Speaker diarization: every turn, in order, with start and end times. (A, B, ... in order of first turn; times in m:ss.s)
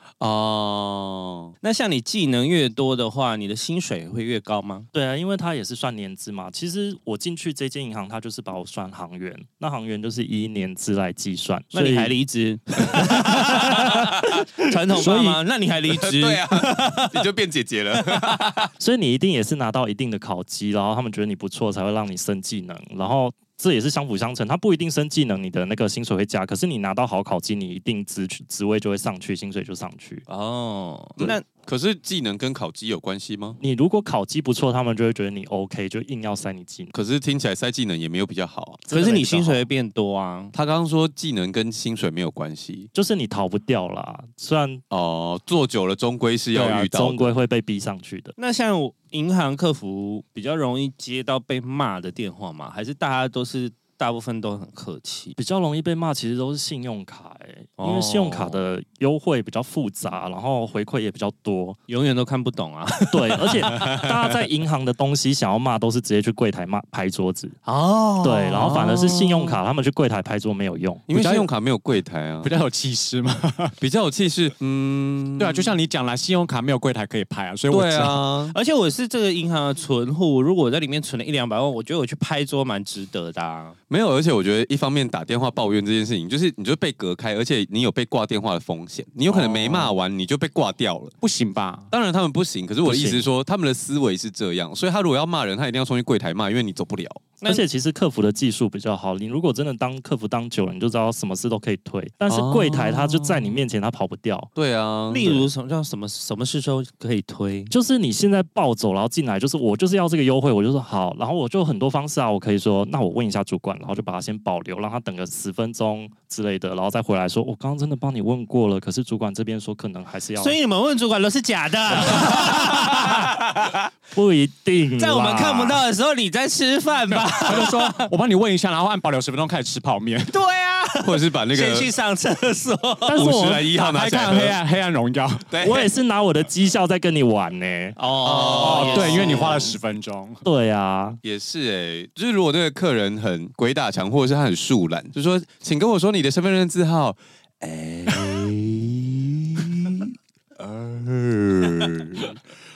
0:00.2-0:01.5 A
0:01.6-0:04.9 B
0:04.9-0:12.1 C
0:11.7-0:17.2 B
0:13.2-0:13.5 C
0:15.9-0:18.7 A
0:18.0-0:18.4 B
0:18.8-0:30.2 C
0:30.3-0:31.4 B
0:31.2-0:33.6 A
0:33.6-0:36.9 C
0:36.9-0:38.9 A
0:38.9-0:39.6 C
0:38.9-0:40.5 B
0:40.5-0:42.9 A
0:42.9-0:44.8 C
0:44.9-0:47.3 A
0:46.5-0:46.9 D
0:46.6-0:48.3 C
0:48.4-0:55.4 B
0:55.4-1:01.8 C
0:57.8-0:58.6 B
1:01.9-1:04.1 B
1:03.1-1:07.6 C
1:07.6-1:09.6 A
1:08.2-1:11.0 C
1:11.1-1:12.5 A
1:11.1-1:11.5 D
1:12.4-1:13.8 D
1:13.8-1:15.7 A
1:15.4-1:18.2 D
1:17.7-1:18.5 A
1:18.5-1:23.8 B
1:23.9-1:31.1 A
1:29.3-1:29.8 C
1:31.2-1:31.9 D
1:31.9-1:37.2 A
1:32.8-1:33.2 C
1:37.4-1:44.5 C
1:42.3-1:43.6 A
1:44.5-1:45.5 A
1:45.1-1:47.7 B
1:47.7-2:00.6 C
2:00.4-2:03.4 B
2:04.1-2:05.8 C
2:05.0-2:08.1 B
2:07.1-2:10.3 D
2:10.3-2:13.4 B
2:11.0-2:11.9 A
2:13.1-2:13.6 C
2:13.1-2:14.6 A
2:13.8-2:15.5 D
2:15.5-2:15.9 A
2:15.6-2:18.0 C
2:18.0-2:19.8 B
2:18.2-2:19.6 A
2:18.6-2:20.4 D
2:20.4-2:21.2 C
2:21.2-2:32.4 A